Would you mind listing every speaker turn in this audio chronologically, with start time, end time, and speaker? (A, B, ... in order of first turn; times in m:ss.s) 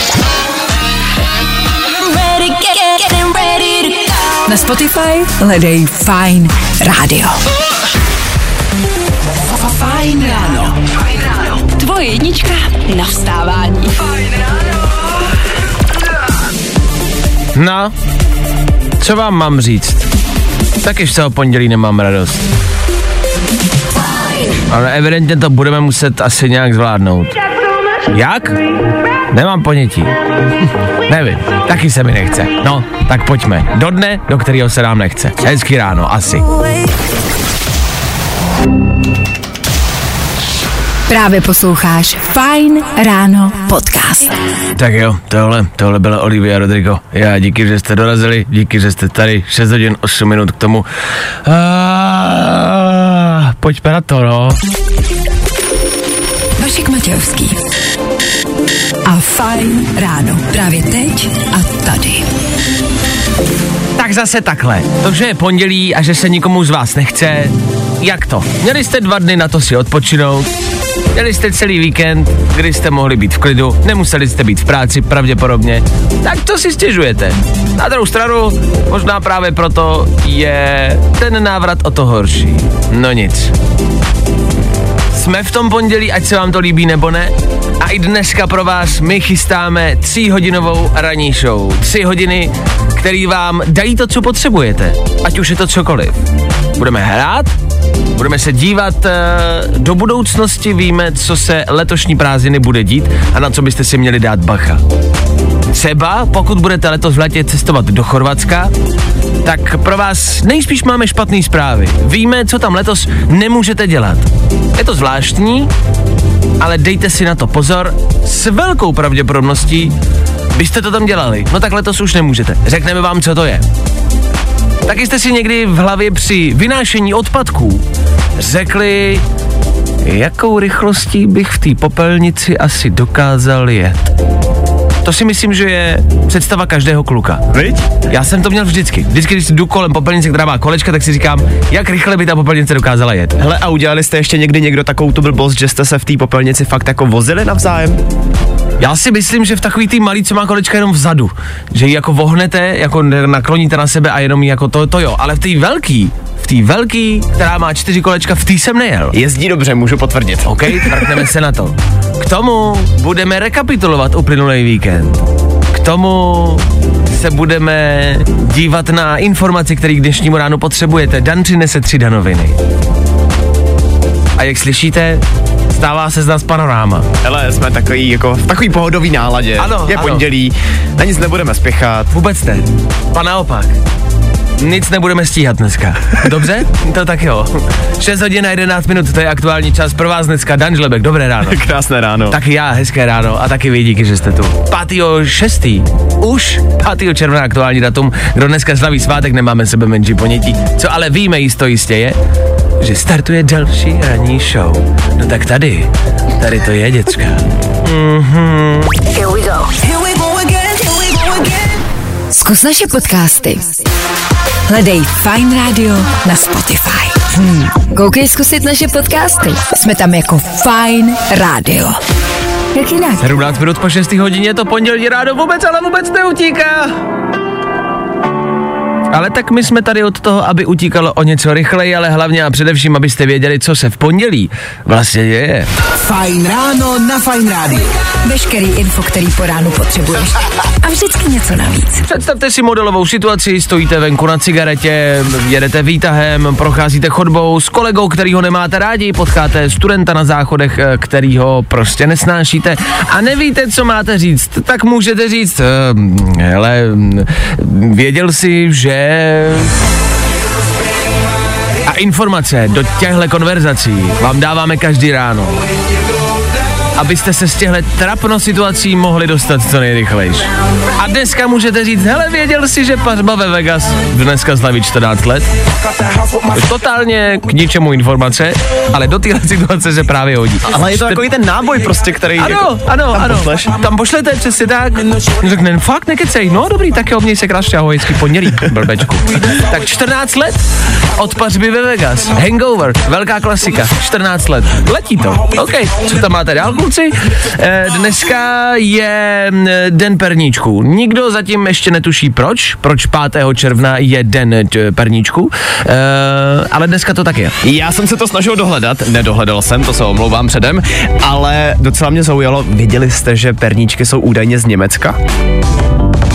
0:01.9-0:07.4 A
0:09.3-0:10.8 B
0:11.6-0:14.1 A
0:17.5-0:17.9 C
0:19.0-0:20.1 C
0:20.8-0:22.4 C
0:24.7-0:27.4 C
0:28.1-0:28.5 C
0:29.3-0:30.1 C
0:31.1-0:36.4 C
0:41.1-0:44.3 A
0:44.8-0:50.8 C
0:51.4-0:54.6 C
0:56.6-0:57.6 A
0:59.0-1:02.3 A
1:04.0-1:10.5 C
1:11.1-1:23.5 C
1:25.1-1:36.2 C
1:36.8-1:37.5 C
1:38.2-1:44.8 C
1:45.7-1:48.7 C
1:49.4-1:55.7 C
1:56.6-1:59.9 C
2:00.5-2:03.6 C
2:04.8-2:07.8 C
2:08.4-2:09.2 C
2:10.0-2:14.0 C
2:15.0-2:17.4 C
2:17.5-2:17.9 D
2:18.1-2:23.4 C
2:23.4-2:28.0 D
2:28.8-2:39.2 C
2:39.1-2:41.1 D
2:40.4-2:52.6 C
2:54.4-2:57.1 C
2:57.2-3:02.1 D
2:59.6-3:00.2 C
3:02.1-3:03.7 C
3:04.6-3:11.6 C
3:11.4-3:12.4 D
3:12.3-3:22.2 C
3:22.8-3:29.0 C
3:29.8-3:31.5 B
3:32.3-3:33.8 A
3:34.7-3:42.0 A
3:42.7-3:43.3 A
3:43.2-3:46.9 C
3:49.1-3:55.7 C
3:56.0-3:57.9 B
3:58.2-4:02.0 A
4:02.1-4:19.7 C
4:21.8-4:25.6 C
4:26.9-4:35.4 C
4:36.5-4:41.2 C
4:40.6-4:43.7 D
4:42.4-4:50.6 C
4:51.1-5:07.5 C
5:07.6-5:15.2 D